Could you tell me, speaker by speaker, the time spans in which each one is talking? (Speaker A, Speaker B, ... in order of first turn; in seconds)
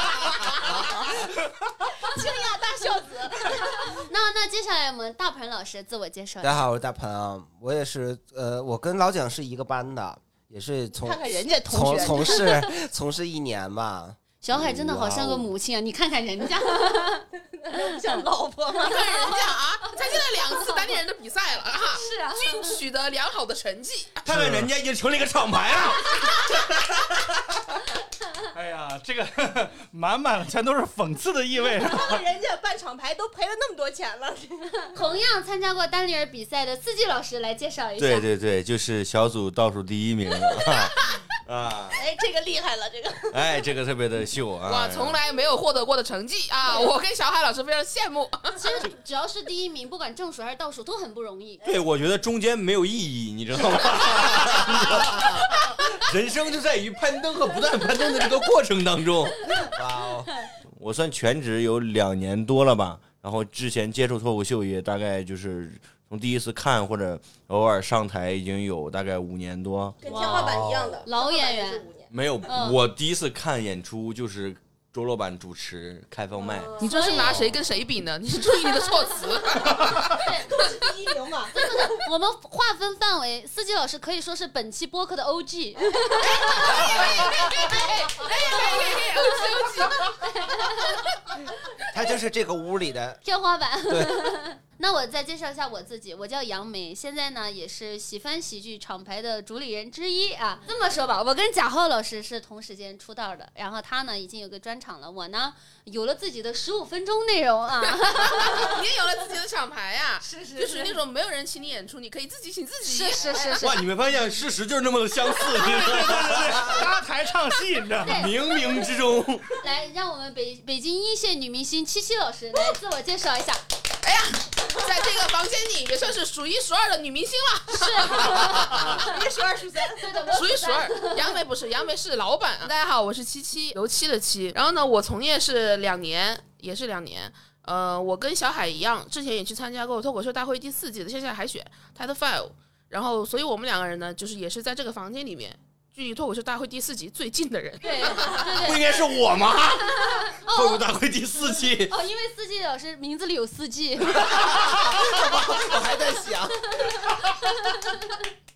Speaker A: 0.7-1.2, 1.9-4.0, 11.0-12.6, 16.7-19.4, 31.7-35.0, 41.9-43.7, 70.0-72.1, 76.4-77.1, 79.6-82.1, 87.5-89.9, 113.3-113.6, 128.3-130.4
Speaker B: 3.9-6.6, 14.4-17.2, 19.9-21.0, 21.9-22.8, 34.9-38.3, 48.6-51.6, 70.0-71.8, 72.5-72.8, 76.8-77.4, 80.1-80.6, 81.5-87.0, 90.2-91.1, 93.2-108.7, 110.2-111.0, 112.8-113.8, 118.0-118.3, 119.6-123.6, 127.7-129.1, 130.0-131.2, 147.8-149.0, 149.9-150.8, 151.8-154.5, 156.8-158.2
Speaker C: 6.4-14.2, 14.9-15.5, 59.7-60.3, 86.7-87.2, 91.9-93.2, 93.9-94.3, 154.2-157.0
Speaker D: 14.5-15.2, 24.2-27.2, 38.0-42.0, 43.3-45.2, 51.6-59.8, 60.8-71.0, 72.1-77.6, 113.6-116.9, 118.0-119.6, 148.3-151.9
Speaker E: 18.8-24.2, 44.7-48.6, 76.8-80.7, 86.2-90.1, 107.8-113.5, 124.0-128.9, 130.3-148.5
Speaker F: 24.3-24.7, 28.5-32.2, 115.6-118.3